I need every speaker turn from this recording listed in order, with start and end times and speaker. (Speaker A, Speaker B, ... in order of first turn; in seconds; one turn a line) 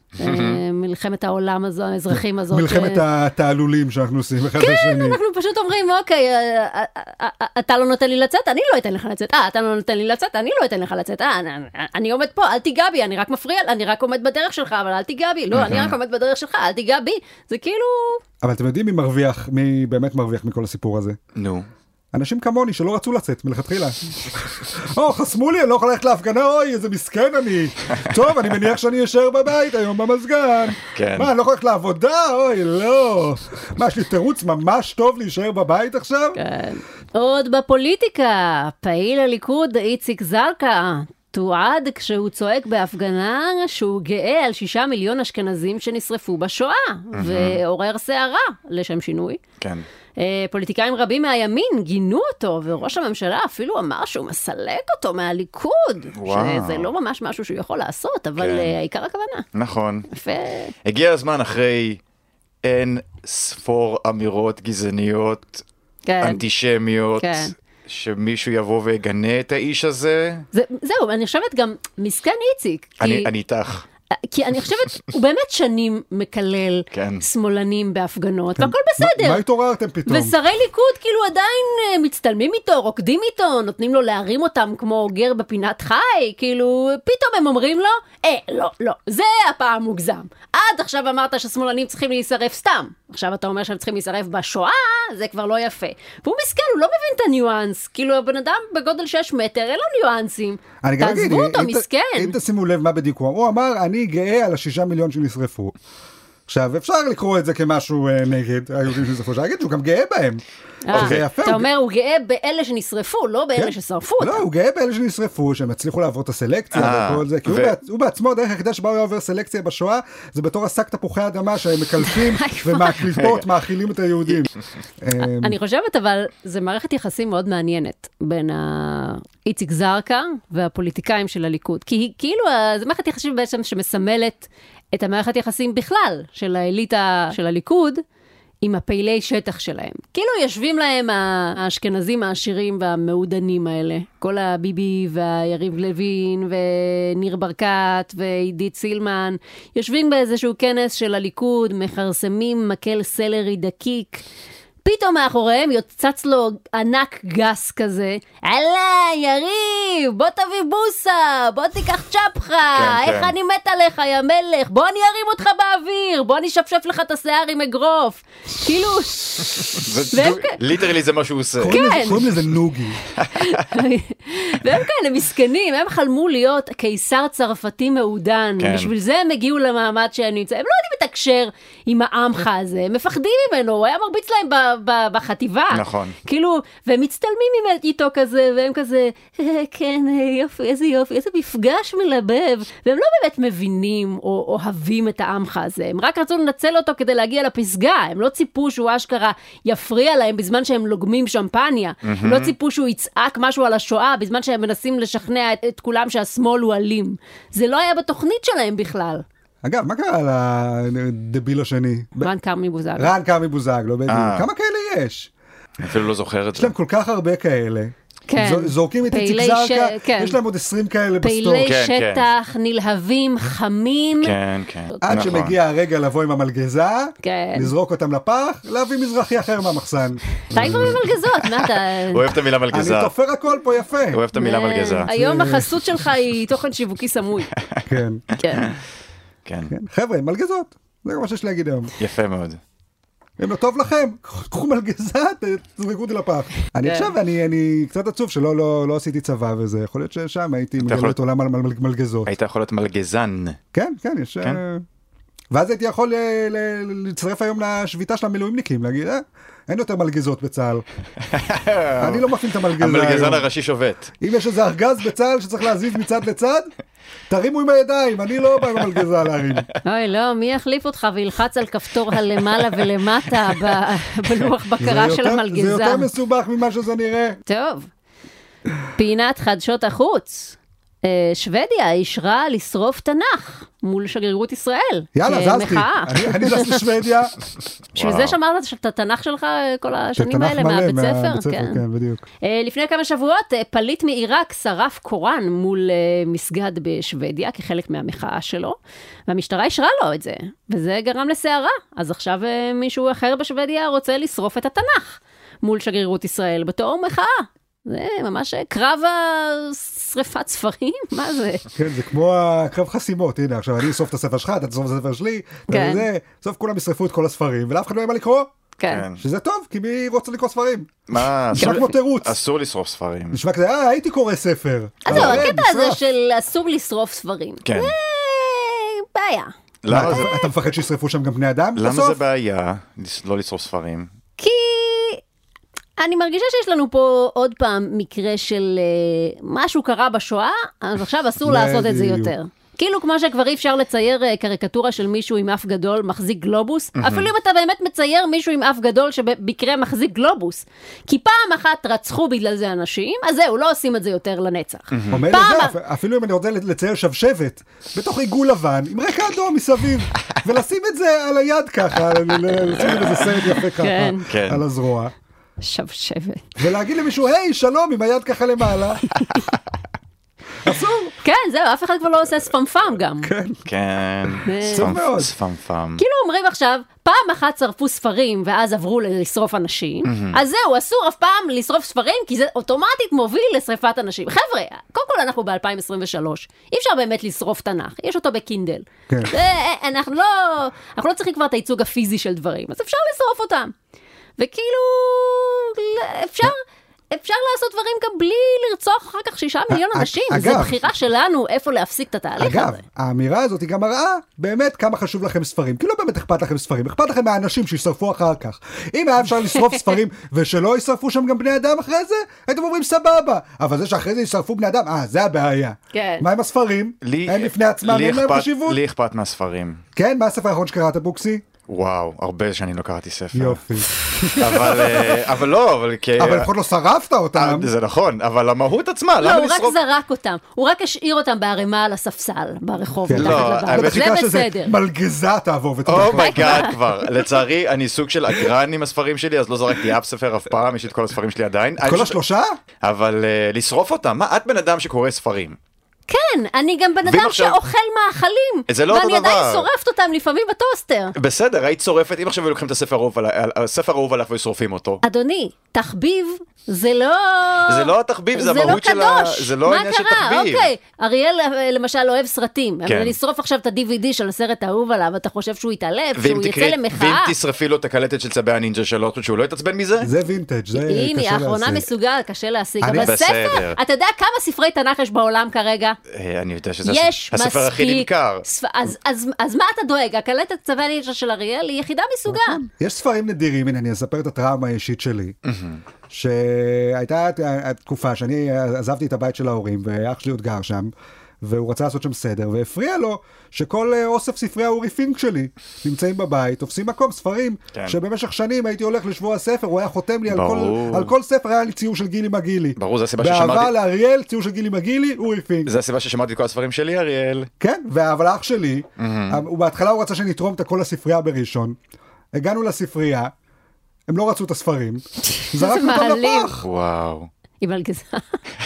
Speaker A: 0.2-0.6
Speaker B: 0.2-3.0
Speaker C: 2.5-5.2
Speaker B: 4.6-18.2
Speaker A: 15.5-15.9
Speaker C: 18.4-21.2
Speaker A: 21.3-21.7
Speaker C: 22.1-36.4
Speaker A: 30.8-31.3
Speaker B: 36.4-49.4
Speaker A: 47.1-47.6
Speaker A: 49.6-49.9
Speaker B: 50.2-59.5
Speaker A: 56.1-56.9
Speaker A: 58.4-58.7
Speaker A: 59.5-60.1
Speaker B: 60.1-60.7
Speaker A: 60.8-62.0
Speaker A: 62.6-65.6
Speaker B: 66.0-66.4
Speaker A: 66.2-70.4
Speaker B: 67.2-67.5
Speaker B: 70.5-73.3
Speaker A: 73.0-73.8
Speaker B: 74.1-79.4
Speaker A: 76.9-77.2
Speaker C: 78.6-80.3
Speaker B: 80.0-102.3
Speaker C: 100.8-105.7
Speaker C: 106.5-111.7
Speaker B: 110.8-114.5
Speaker A: 110.9-111.3
Speaker C: 113.5-124.5
Speaker A: 116.7-117.8
Speaker B: 122.0-123.0
Speaker A: 123.2-123.4
Speaker C: 125.0-125.5
Speaker B: 125.2-138.0
Speaker B: 138.6-154.2
Speaker B: 154.8-170.6
Speaker A: 162.7-163.3
Speaker A: 169.6-172.2
Speaker C: 171.6-173.0
Speaker B: 171.7-172.3
Speaker A: 173.1-173.6
Speaker B: 173.3-209.2
Speaker A: 178.6-178.9
Speaker A: 185.7-186.2
Speaker A: 202.0-202.5
Speaker C: 209.6-212.3
Speaker B: 212.2-213.1
Speaker C: 213.0-215.3
Speaker A: 214.1-214.5
Speaker A: 215.8-216.7
Speaker C: 216.6-221.7
Speaker B: 218.3-220.4
Speaker B: 221.2-224.3
Speaker A: 221.6-222.3
Speaker A: 224.2-225.6
Speaker C: 225.0-231.0
Speaker B: 227.2-227.7
Speaker B: 230.5-232.3
Speaker A: 230.6-233.1
Speaker C: 232.7-234.2
Speaker A: 234.1-235.1
Speaker B: 234.3-237.5
Speaker C: 235.1-235.8
Speaker A: 237.6-238.7
Speaker C: 237.9-238.2
Speaker B: 238.4-238.7
Speaker A: 239.4-239.7
Speaker C: 239.7-241.9
Speaker A: 242.0-242.6
Speaker C: 243.4-252.3
Speaker B: 246.8-247.1
Speaker A: 250.8-251.2
Speaker A: 252.2-253.6
Speaker C: 253.7-254.8
Speaker C: 255.5-260.8
Speaker A: 261.3-264.1
Speaker C: 262.0-263.4
Speaker C: 264.2-266.7
Speaker C: 267.3-269.7
Speaker B: 269.8-276.1
Speaker C: 274.8-277.4
Speaker B: 277.5-277.9
Speaker B: 278.9-286.8
Speaker C: 285.1-287.3
Speaker A: 287.9-288.4
Speaker B: 287.9-291.8
Speaker C: 290.1-292.2
Speaker B: 292.4-311.6
Speaker C: 311.8-318.5
Speaker B: 315.7-316.1
Speaker B: 318.8-319.0
Speaker A: 318.9-319.2
Speaker C: 319.2-321.0
Speaker A: 321.1-323.4
Speaker C: 321.5-322.4
Speaker B: 321.6-321.9
Speaker C: 323.3-326.0
Speaker B: 325.0-329.5
Speaker A: 325.1-325.5
Speaker A: 327.6-327.9
Speaker A: 329.8-330.5
Speaker C: 329.9-332.2
Speaker A: 331.8-334.1
Speaker B: 334.4-335.2
Speaker B: 336.0-355.7
Speaker C: 341.4-342.3
Speaker A: 347.0-347.3
Speaker A: 354.9-355.2
Speaker C: 355.1-365.1
Speaker B: 363.8-364.2
Speaker A: 364.2-364.6
Speaker B: 365.6-366.5
Speaker C: 366.6-369.1
Speaker B: 369.1-369.4
Speaker C: 370.6-371.1
Speaker B: 371.2-373.3
Speaker C: 373.2-373.6
Speaker A: 373.6-376.0
Speaker B: 374.4-374.9
Speaker C: 374.7-375.3
Speaker B: 376.0-393.7
Speaker A: 380.0-380.4
Speaker B: 394.4-396.6
Speaker B: 397.1-402.8
Speaker C: 399.7-400.8
Speaker C: 402.4-418.8
Speaker B: 415.9-416.3
Speaker A: 417.0-419.8
Speaker C: 419.9-421.4
Speaker A: 421.7-423.6
Speaker C: 423.3-425.3
Speaker A: 424.3-426.5
Speaker C: 426.2-427.7
Speaker A: 427.3-429.8
Speaker B: 429.2-434.7
Speaker C: 433.1-436.7
Speaker A: 433.1-434.0
Speaker A: 435.9-442.2
Speaker B: 436.1-436.8
Speaker C: 441.8-442.6
Speaker A: 442.8-445.6
Speaker B: 446.1-451.1
Speaker A: 447.0-447.6
Speaker A: 448.7-449.7
Speaker A: 451.1-455.0
Speaker B: 455.0-467.3
Speaker A: 457.7-460.7
Speaker A: 462.9-463.1
Speaker A: 466.1-470.1
Speaker C: 470.0-471.9
Speaker B: 470.7-476.0
Speaker C: 472.8-473.1
Speaker A: 473.0-473.8
Speaker A: 476.1-478.4
Speaker B: 476.8-482.6
Speaker C: 482.3-485.4
Speaker A: 485.4-485.8
Speaker C: 486.1-490.9
Speaker C: 491.4-505.7
Speaker A: 500.3-501.1
Speaker A: 502.8-503.7
Speaker A: 505.6-507.5
Speaker C: 507.6-511.8
Speaker A: 509.0-509.4
Speaker C: 512.3-513.3
Speaker C: 514.1-516.7
Speaker B: 515.3-516.5
Speaker A: 516.6-517.3
Speaker B: 517.6-518.4